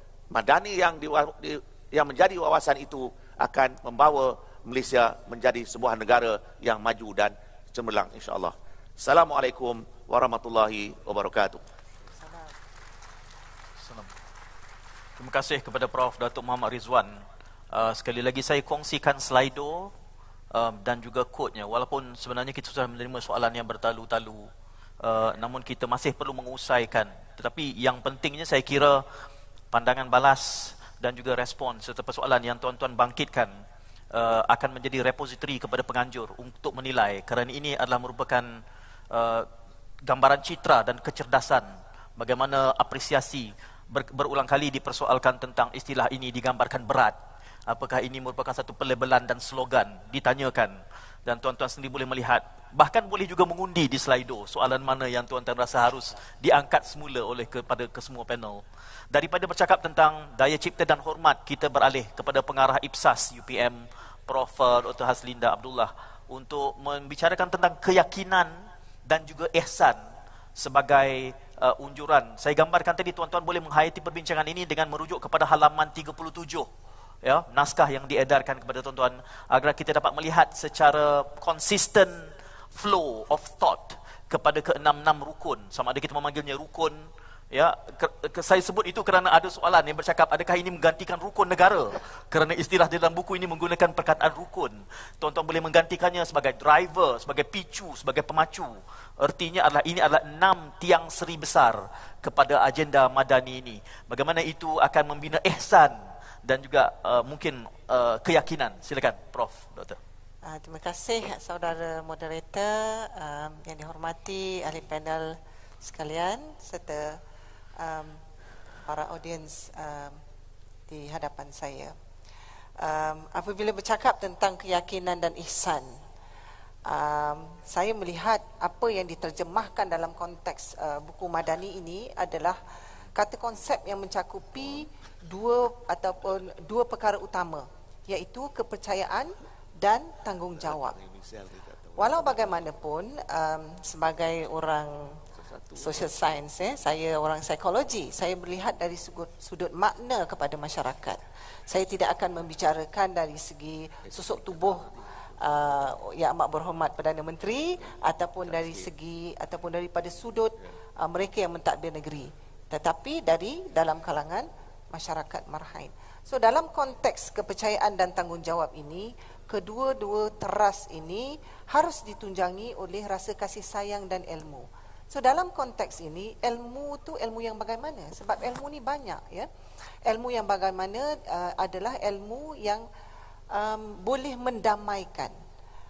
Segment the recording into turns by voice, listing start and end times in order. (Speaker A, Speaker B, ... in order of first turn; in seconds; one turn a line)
Speaker A: 0.3-11.6
Speaker B: 13.8-14.1
Speaker B: 15.2-19.9
Speaker B: 20.5-24.5
Speaker B: 25.0-29.0
Speaker B: 29.7-33.5
Speaker B: 34.1-39.5
Speaker B: 40.0-70.0
Speaker B: 70.5-76.7
Speaker B: 77.2-110.0
Speaker C: 110.4-117.2
Speaker C: 117.8-118.2
Speaker C: 118.8-120.2
Speaker C: 120.9-121.9
Speaker C: 122.8-125.9
Speaker C: 126.8-132.6
Speaker C: 133.1-140.9
Speaker A: 140.6-142.6
Speaker C: 142.0-145.2
Speaker A: 145.3-146.1
Speaker C: 145.8-154.8
Speaker A: 154.1-155.6
Speaker C: 155.4-179.5
Speaker A: 157.8-158.9
Speaker C: 180.1-182.8
Speaker C: 183.5-185.3